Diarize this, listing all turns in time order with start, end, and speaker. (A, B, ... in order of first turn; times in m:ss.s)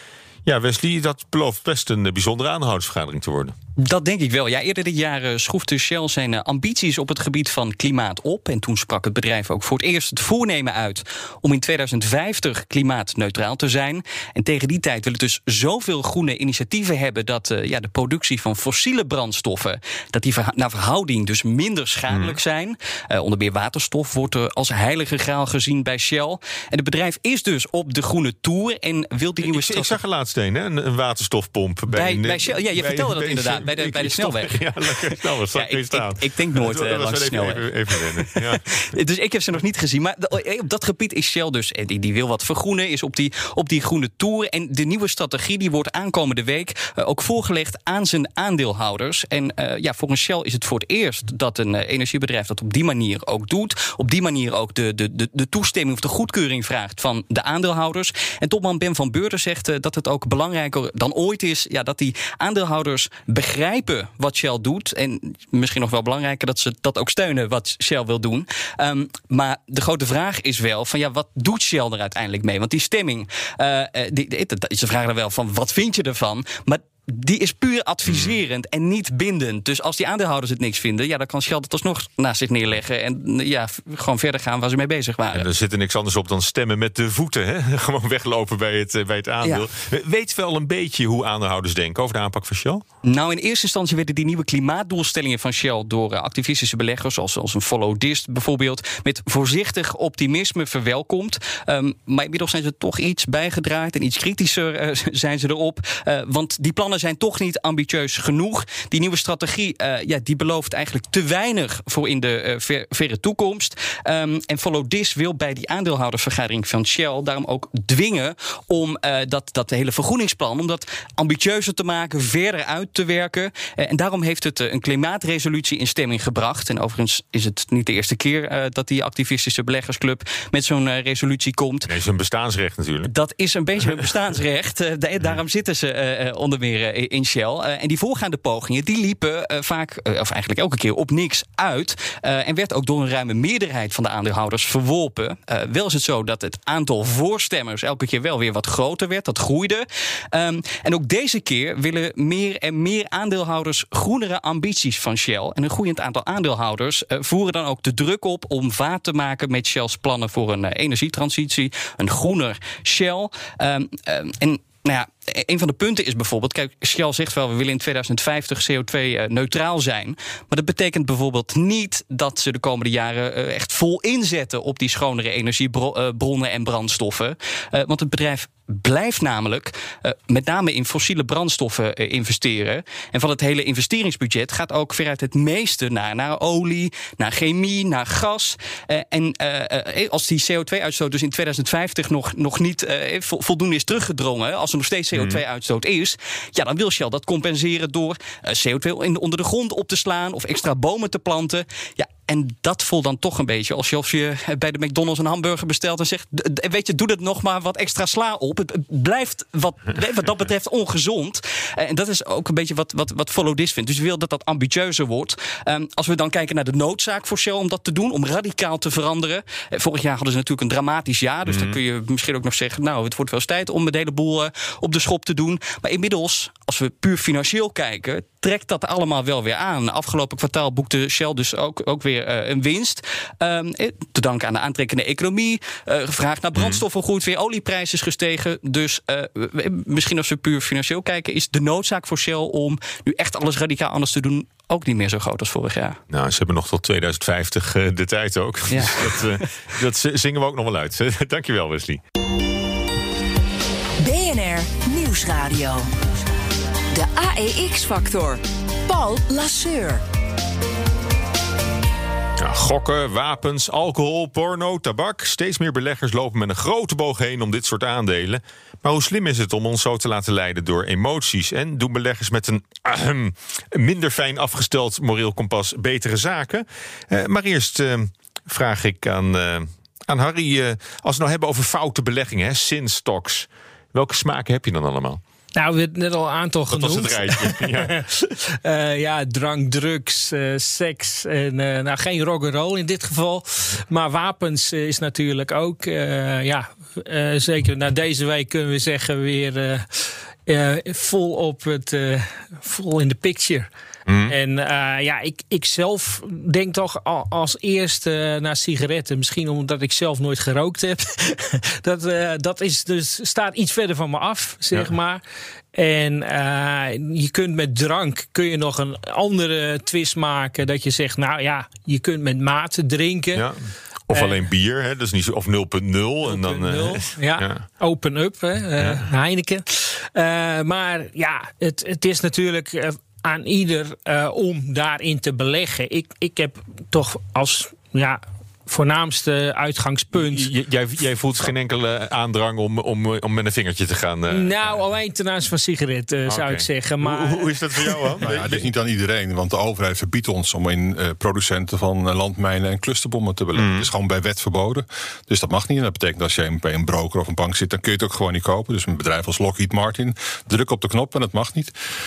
0:00.4-0:03.6 A
0:03.8-0:30.0 B
0:22.1-0:22.4 A
0:29.4-0:38.6 A
0:31.9-1:25.5 B
1:18.0-1:18.4 A
1:25.3-1:32.8 A
1:33.1-2:11.9 B
2:11.9-2:13.1 A
2:13.1-4:06.0 B
3:15.2-3:15.4 A
3:41.5-3:41.8 A
3:56.6-3:56.8 A
4:06.1-4:12.0 A
4:08.7-4:09.4 B
4:14.0-4:15.9 C
4:16.9-4:20.0 C
4:22.4-4:45.2 A
4:45.6-5:03.7 D
4:46.7-4:48.0 A
5:04.1-5:04.3 A
5:04.3-5:15.2 D
5:15.7-5:23.5 D
5:24.1-5:27.6 A
5:24.1-5:24.4 D
5:26.2-5:40.5 D
5:28.8-5:29.0 A
5:40.2-5:44.8 A
5:44.3-5:48.1 D
5:46.3-5:48.7 A
5:48.2-6:01.8 E
5:53.6-5:53.9 A